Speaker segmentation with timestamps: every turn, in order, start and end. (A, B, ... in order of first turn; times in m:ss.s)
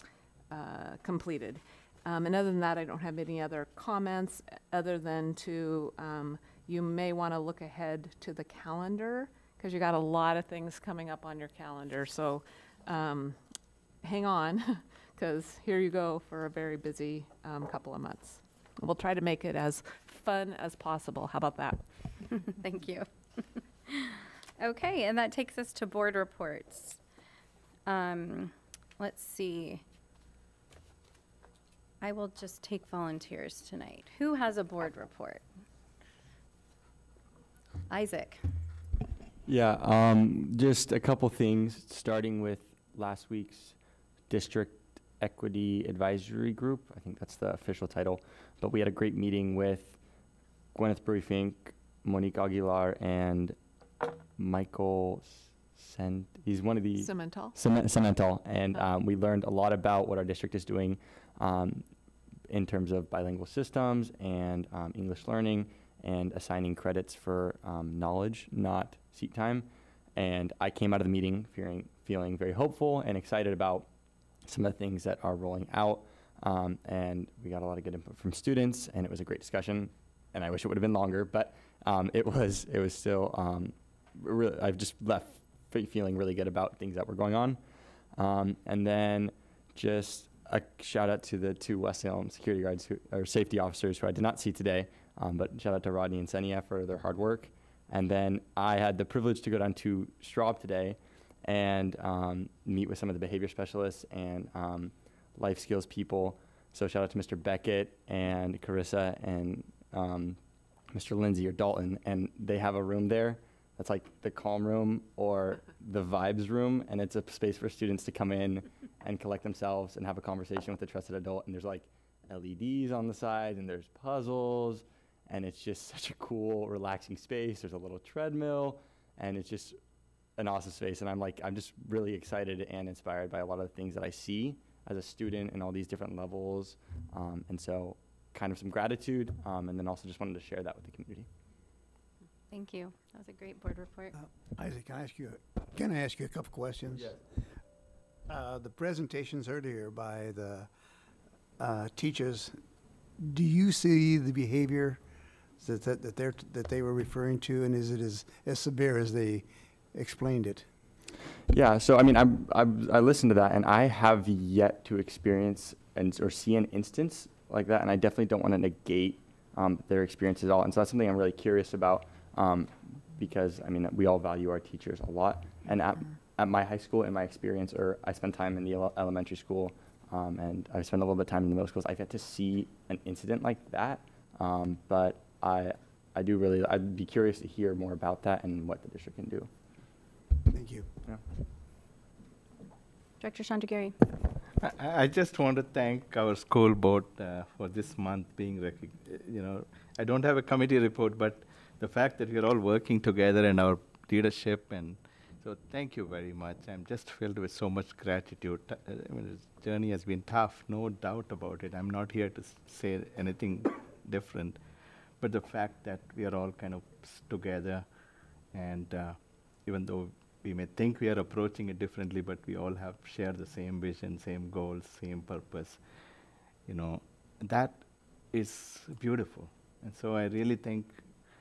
0:00.5-0:13.4 A
0:14.0-0:21.8 A
0:22.3-0:23.1 B
0:23.9-0:27.0 B
0:27.9-0:29.8 B
0:32.0-0:35.4 B
0:37.9-0:38.4 B
0:39.5-0:43.8 C
0:44.3-0:50.0 C
0:50.7-0:53.6 C
0:54.4-1:01.9 C
0:57.0-0:57.6 A
1:02.5-1:13.9 C
1:14.4-1:27.6 C
1:28.1-1:50.4 C
1:50.9-2:09.8 C
2:10.4-2:21.3 C
2:22.5-2:24.2 B
2:24.2-2:27.1 D
2:28.3-2:30.7 D
2:31.6-2:32.6 D
2:33.2-2:35.0 D
2:35.6-2:40.6 D
2:41.5-3:09.5 C
3:10.5-3:10.9 D
3:13.2-3:13.9 B
3:14.6-3:34.6 E
3:35.2-3:37.9 E
3:38.5-3:45.8 E
3:46.7-3:51.1 E